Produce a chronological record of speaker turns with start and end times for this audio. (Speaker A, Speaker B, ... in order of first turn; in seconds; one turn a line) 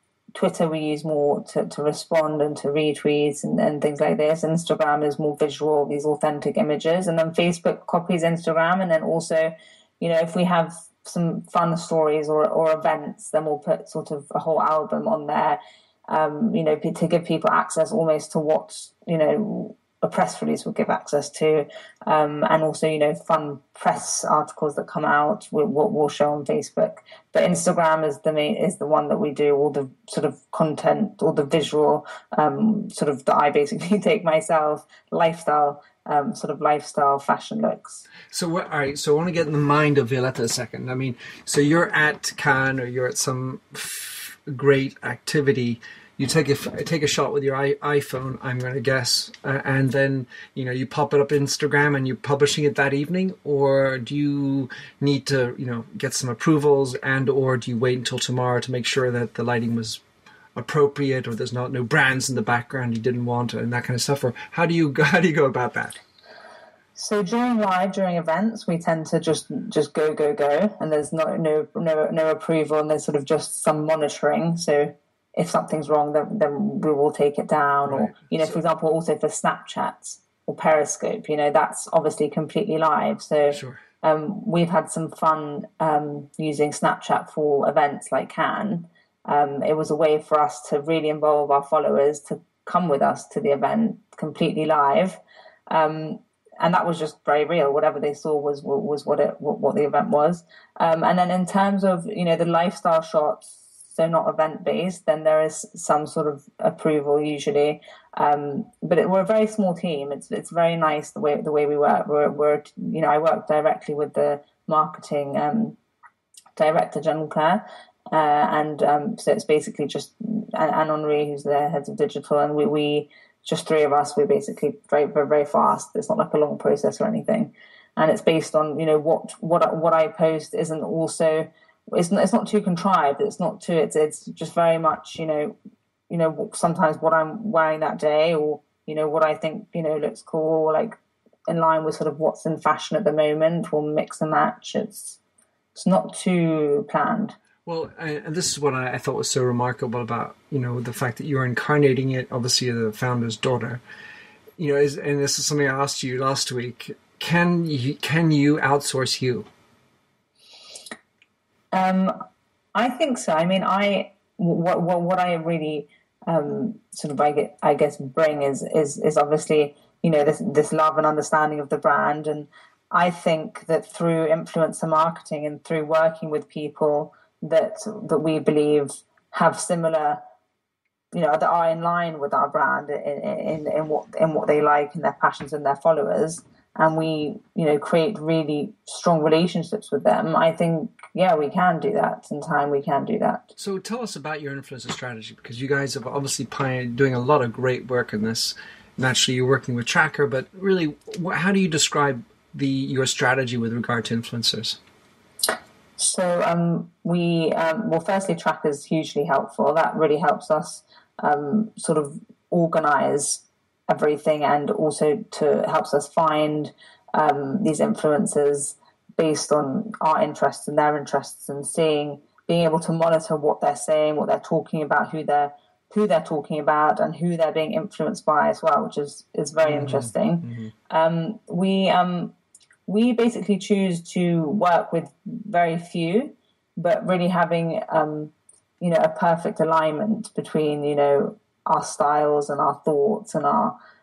Speaker A: 0.3-38.0
Speaker B: 38.3-60.0
Speaker B: 60.5-66.0
Speaker A: 67.0-115.8
Speaker B: 77.8-78.5
Speaker B: 83.5-83.8
Speaker A: 116.5-135.6
Speaker A: 136.1-145.2
Speaker A: 145.7-147.3
Speaker B: 147.7-153.8
Speaker B: 154.6-159.5
Speaker A: 161.7-162.2
Speaker A: 162.7-180.2
Speaker A: 181.1-193.5
Speaker B: 193.6-204.8
Speaker A: 206.0-232.3
Speaker B: 229.6-230.7
Speaker A: 232.9-243.7